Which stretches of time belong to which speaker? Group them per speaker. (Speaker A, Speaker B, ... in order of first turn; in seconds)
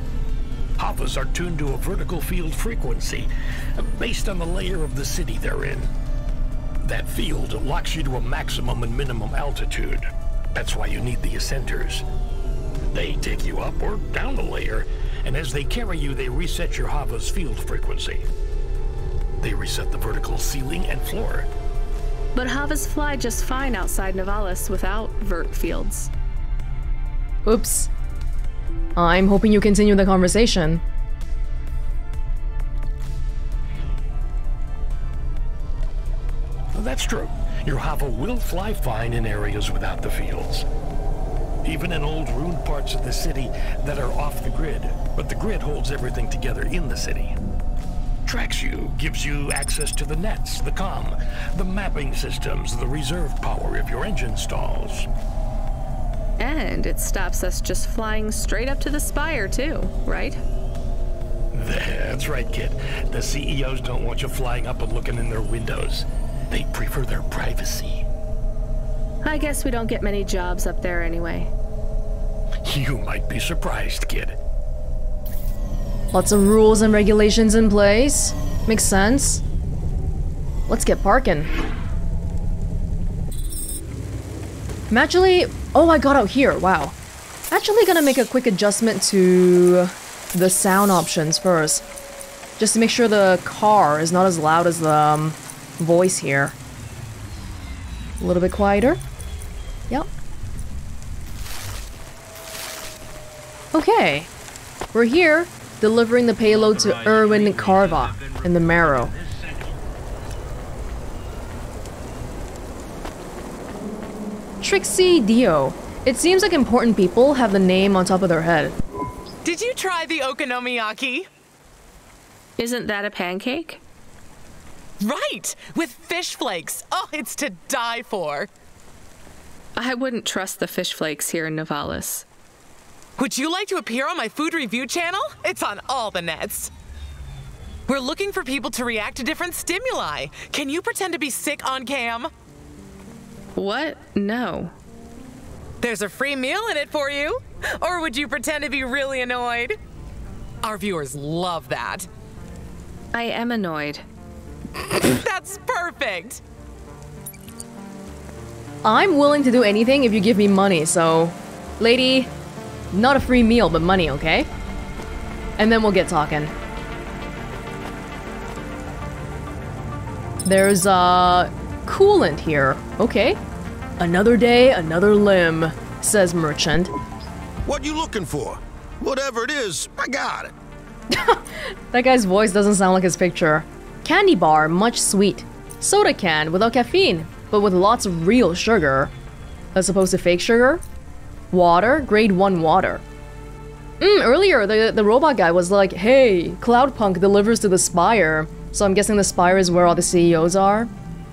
Speaker A: 0.8-5.9, 6.8-12.1, 12.9-18.2, 19.4-21.5, 36.7-40.7, 41.6-47.4, 48.3-55.1, 61.5-68.0, 72.6-74.4
Speaker B: 22.4-26.1, 56.4-60.4, 69.2-71.5, 122.6-123.8, 129.8-132.2, 143.6-144.7, 153.1-154.0
Speaker C: 27.4-27.9, 29.0-30.8, 76.1-79.4, 80.7-81.5, 84.9-87.0, 87.5-91.8, 92.6-96.5, 98.2-99.0, 103.7-104.3, 104.9-109.1, 114.6-118.8, 158.8-162.3, 162.9-164.5, 165.6-166.5, 170.5-173.4, 174.0-176.9, 181.1-189.1, 189.8-190.8, 191.5-193.0, 194.0-200.9
Speaker D: 119.4-121.3, 125.0-128.5, 133.2-136.7, 137.9-142.3, 145.8-149.8, 150.6-152.1, 154.9-156.4
Speaker E: 177.7-180.5